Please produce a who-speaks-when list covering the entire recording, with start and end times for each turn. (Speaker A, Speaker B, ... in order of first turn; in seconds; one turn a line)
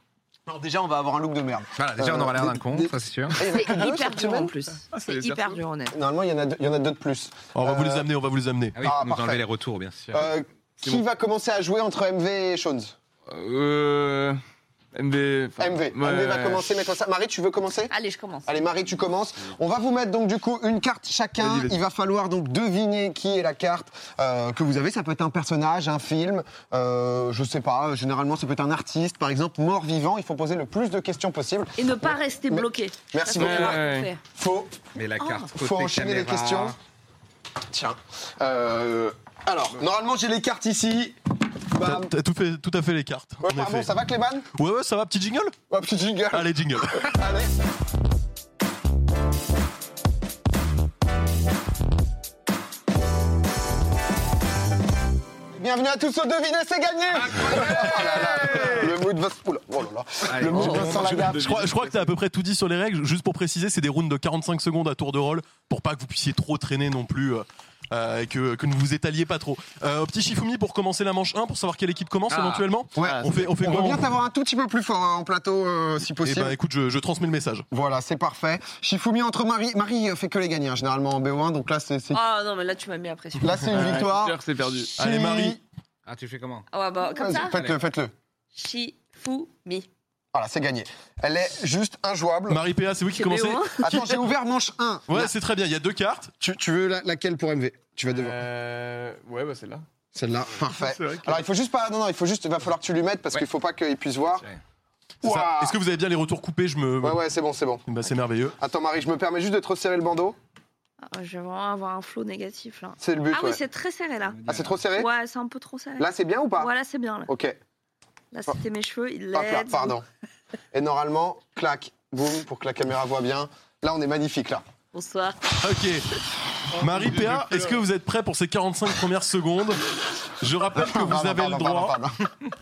Speaker A: 0.5-4.5
Speaker B: 1.8-3.4
Speaker C: 3.5-5.9
Speaker D: 4.9-5.6
Speaker A: 5.9-8.1
Speaker E: 7.5-8.8
Speaker B: 8.7-10.3
Speaker A: 8.8-9.4
Speaker A: 10.1-12.9
Speaker D: 13.3-14.4
Speaker D: 14.9-16.7
Speaker A: 15.6-17.9
Speaker C: 17.9-18.5
Speaker A: 18.4-34.7
Speaker D: 21.4-21.8
Speaker C: 31.8-34.2
Speaker D: 33.4-34.1
Speaker B: 34.9-36.8
Speaker C: 35.2-35.5
Speaker A: 35.5-36.8
Speaker A: 37.7-41.2
Speaker A: 41.7-42.1
Speaker E: 41.8-43.9
Speaker A: 43.4-44.5
Speaker E: 44.6-45.5
Speaker A: 45.7-47.5
Speaker E: 46.3-47.1
Speaker A: 55.5-61.5
Speaker D: 57.5-59.0
Speaker B: 58.1-58.6
Speaker B: 60.3-60.7
Speaker E: 60.5-74.0
Speaker D: 60.5-62.1
Speaker C: 60.6-60.8
Speaker B: 72.3-72.6
Speaker A: 73.0-76.5
Speaker D: 73.0-73.3
Speaker E: 76.2-77.7
Speaker A: 77.7-82.2
Speaker C: 82.1-84.0
Speaker A: 83.4-85.6
Speaker D: 83.7-84.9
Speaker E: 85.0-85.6
Speaker B: 86.0-86.7
Speaker C: 86.7-87.6
Speaker A: 87.1-88.1
Speaker C: 88.5-89.9
Speaker A: 90.3-92.6
Speaker E: 92.5-93.8
Speaker C: 93.1-94.2
Speaker A: 93.8-95.3
Speaker E: 95.1-96.3
Speaker A: 96.4-98.4
Speaker D: 98.1-99.8
Speaker A: 100.1-104.5
Speaker D: 100.7-101.4
Speaker A: 105.2-105.8
Speaker E: 105.2-107.2
Speaker A: 107.0-107.8
Speaker E: 107.9-108.6
Speaker A: 108.6-110.4
Speaker C: 111.0-114.4
Speaker A: 113.0-113.6
Speaker B: 114.3-114.8
Speaker A: 114.5-115.1
Speaker C: 114.9-117.3
Speaker A: 116.0-116.7
Speaker A: 117.3-117.6
Speaker C: 118.3-119.9
Speaker A: 119.3-120.0
Speaker A: 120.7-124.6
Speaker C: 124.9-125.4
Speaker E: 125.6-126.1
Speaker E: 126.7-132.0
Speaker D: 126.7-127.8
Speaker A: 130.7-132.3